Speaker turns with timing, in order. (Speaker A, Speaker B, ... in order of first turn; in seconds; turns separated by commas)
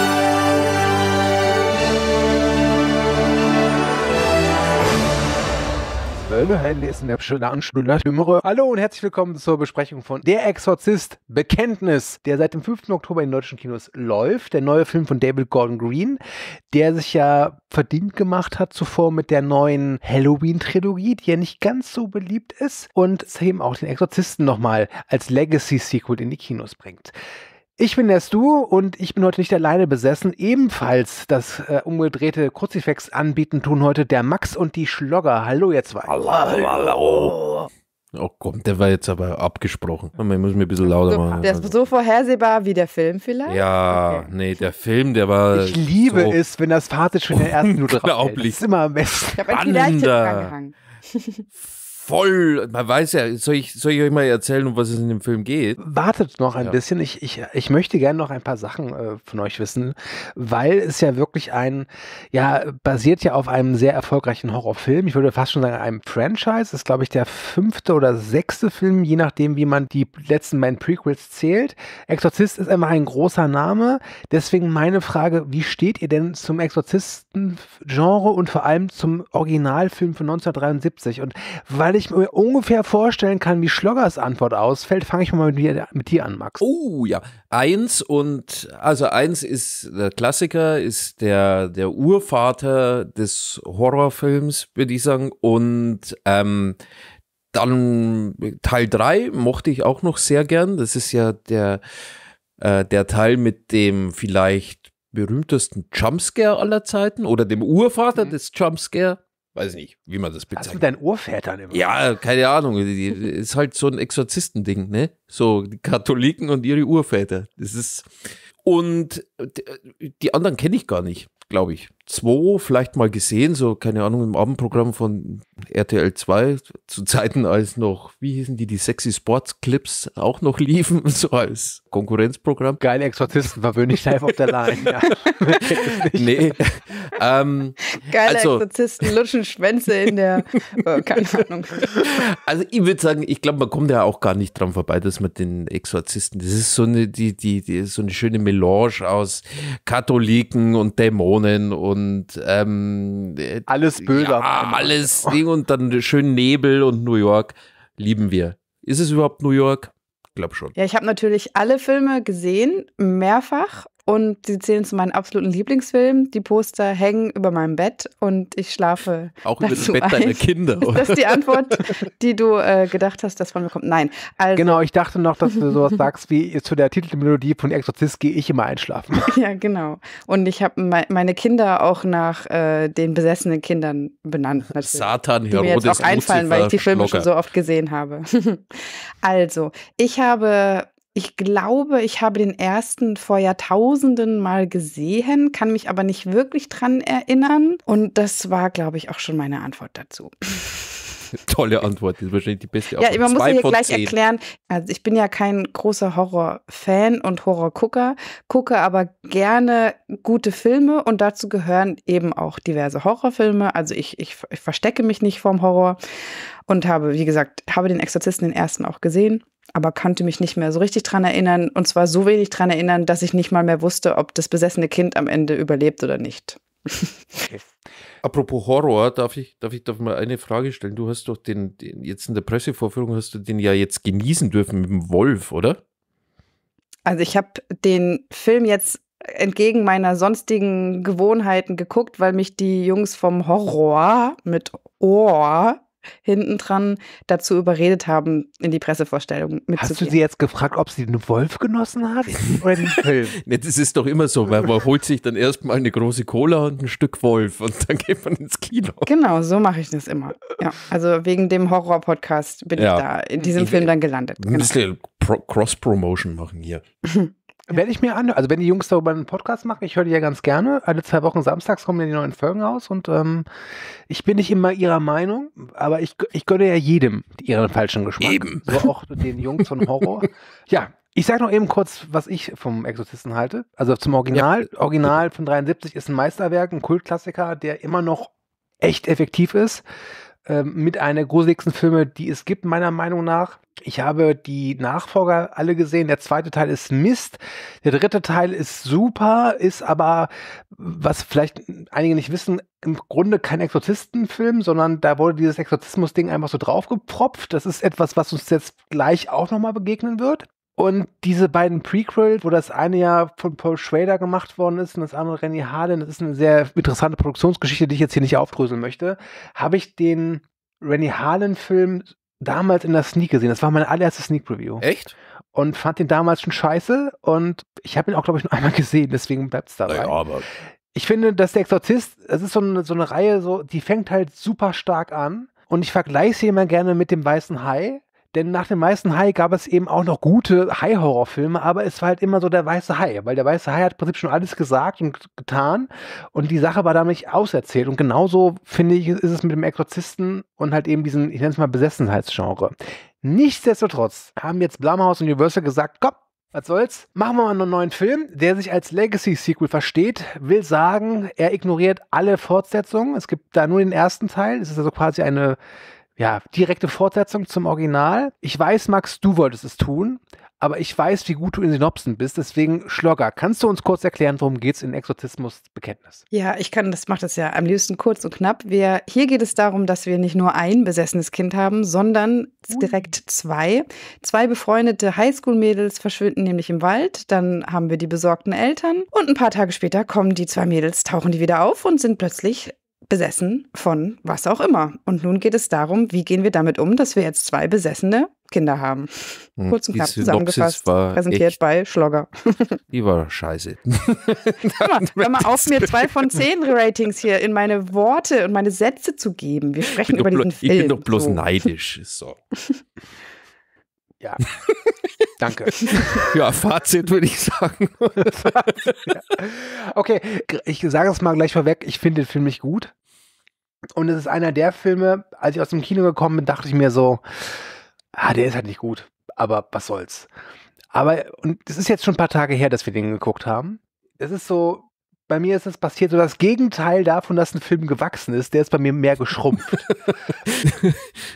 Speaker A: 6.2-16.2, Speaker A: 16.7-27.1, Speaker A: 27.8-36.2, Speaker B: 36.0-41.8, Speaker C: 41.1-44.3, Speaker B: 43.5-46.4, Speaker A: 45.5-49.5, Speaker B: 47.3-48.6, Speaker C: 49.4-51.4, Speaker B: 49.5-50.5, Speaker B: 51.6-55.8, Speaker A: 55.8-86.6, Speaker B: 86.6-96.8, Speaker B: 97.5-101.8, Speaker B: 102.6-110.8, Speaker A: 110.6-112.0, Speaker B: 111.7-118.1, Speaker B: 118.6-132.8, Speaker A: 132.8-136.6, Speaker B: 134.7-138.6, Speaker C: 137.9-142.0, Speaker B: 141.9-160.7, Speaker A: 153.7-155.4, Speaker C: 160.8-174.8, Speaker B: 169.4-171.8, Speaker A: 174.6-179.3, Speaker C: 179.3-201.1, Speaker B: 184.8-187.3, Speaker B: 201.5-204.1, Speaker C: 203.0-216.0, Speaker C: 216.7-227.2, Speaker B: 228.2-235.8, Speaker C: 237.1-250.2, Speaker A: 249.8-253.4, Speaker B: 252.4-259.1, Speaker C: 259.1-264.8, Speaker B: 262.8-266.8, Speaker A: 267.7-273.5, Speaker A: 274.1-289.8, Speaker B: 278.2-278.9, Speaker B: 284.3-284.6, Speaker A: 290.5-324.8, Speaker B: 324.8-325.1, Speaker A: 325.6-330.2, Speaker B: 329.9-330.5, Speaker A: 330.9-365.6, Speaker A: 366.2-376.2, Speaker C: 376.3-402.8, Speaker A: 382.7-383.1, Speaker B: 399.6-401.6, Speaker B: 402.9-406.1, Speaker C: 404.8-411.4, Speaker B: 410.1-412.4, Speaker A: 415.4-416.3, Speaker B: 415.8-419.2, Speaker A: 419.1-422.9, Speaker A: 423.9-430.3, Speaker A: 430.9-439.8, Speaker B: 440.5-441.0